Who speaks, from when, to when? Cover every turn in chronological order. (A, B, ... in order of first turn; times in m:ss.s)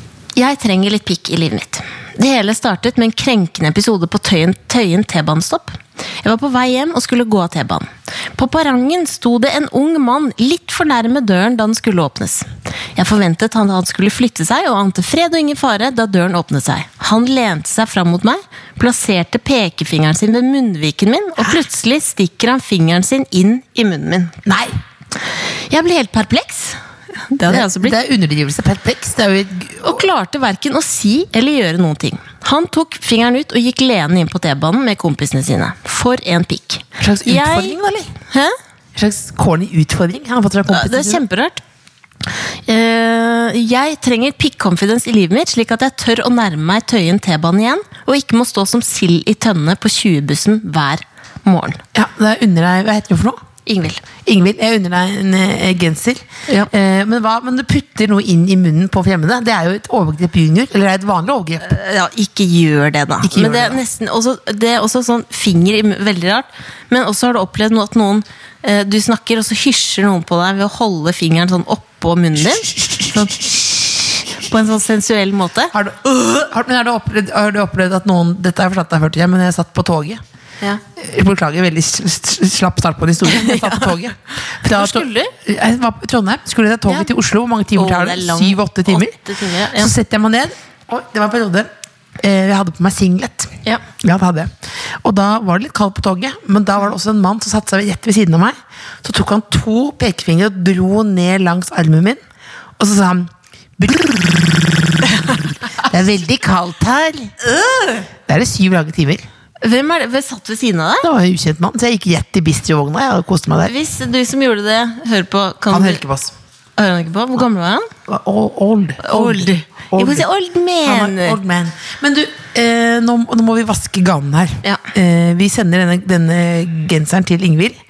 0:00.4-0:24.4 A
0:24.5-0:24.7 B
0:25.3-0:26.8 A
0:27.3-0:28.0 A
0:27.5-0:30.1 B
0:29.8-0:37.8 A
0:37.0-0:38.1 B
0:39.0-0:41.2 B
0:40.7-0:41.6 A
0:42.7-0:51.8 A
0:51.9-0:53.4 B
0:53.7-0:54.0 A
0:54.2-1:01.7 B
1:01.6-1:15.7 A
1:03.2-1:03.8 B
1:12.6-1:13.3 B
1:15.7-1:20.2 B
1:21.0-1:29.2 B
1:23.2-1:24.0 A
1:24.7-1:25.3 A
1:27.8-1:29.9 A
1:29.8-1:42.2 B
1:42.8-1:47.3 B
1:47.4-1:48.1 A
1:48.3-1:49.2 B
1:49.6-1:51.1 A
1:51.0-1:53.7 B
1:53.6-1:56.0 A
1:55.7-1:56.3 B
1:56.8-1:57.9 A
1:58.1-2:00.3 B
1:59.0-2:01.4 A
2:00.8-2:07.8 B